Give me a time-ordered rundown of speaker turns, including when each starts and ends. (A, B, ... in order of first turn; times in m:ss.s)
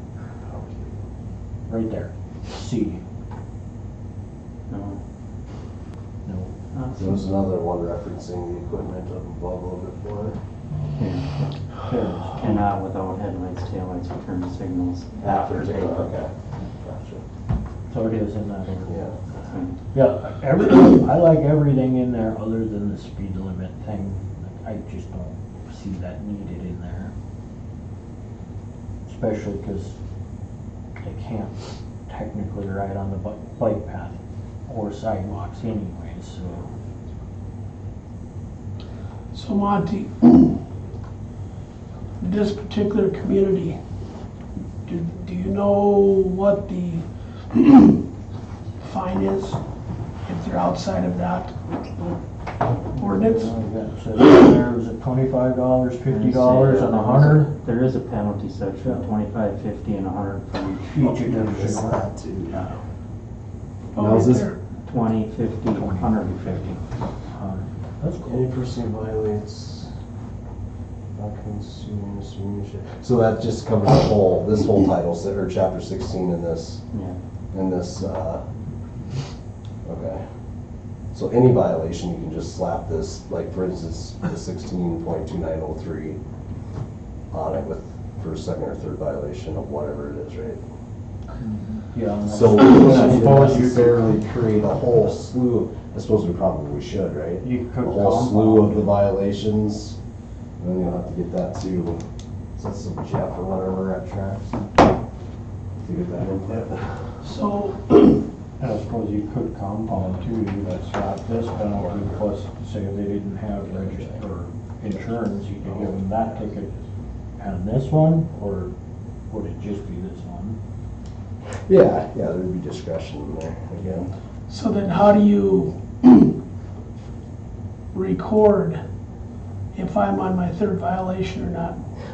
0:00.4-0:01.0 A
0:01.7-0:03.0 B
0:04.7-0:05.0 C
0:06.2-0:06.5 B
0:06.7-0:07.1 C
0:07.0-0:10.4 A
0:11.0-0:11.8 C
0:11.8-0:12.6 B
0:12.3-0:16.1 C
0:15.2-0:17.2 A
0:17.9-0:19.0 B
0:18.9-0:19.2 A
0:19.4-0:19.8 C
0:19.9-0:27.1 B
0:29.1-0:30.0 B
0:31.0-0:36.7 B
0:39.3-0:40.6 D
0:42.2-0:43.8 D
0:44.9-0:48.0 D
0:48.8-0:49.6 D
0:50.2-0:51.6 D
0:53.0-0:53.5 D
0:53.1-0:57.5 B
0:56.1-1:01.2 C
1:00.9-1:02.1 B
1:01.0-1:02.8 A
1:03.9-1:04.6 D
1:04.0-1:04.5 A
1:04.9-1:06.8 C
1:05.7-1:06.1 B
1:07.3-1:08.5 B
1:08.2-1:09.9 A
1:11.2-1:16.8 A
1:16.9-1:17.2 C
1:17.5-1:18.4 A
1:19.8-1:20.2 A
1:21.1-1:26.2 A
1:27.3-1:30.6 A
1:31.4-1:34.0 B
1:32.2-1:40.0 A
1:37.4-1:38.9 B
1:40.6-1:42.0 A
1:42.6-1:44.7 A
1:45.8-1:47.2 A
1:47.2-1:48.2 D
1:48.6-1:56.7 B
1:51.3-1:52.3 A
1:53.8-1:54.2 A
1:54.9-1:56.8 A
1:57.4-1:58.7 B
1:59.3-2:00.6 B
2:01.7-2:04.1 A
2:04.5-2:06.3 D
2:07.9-2:08.8 D
2:09.7-2:11.8 D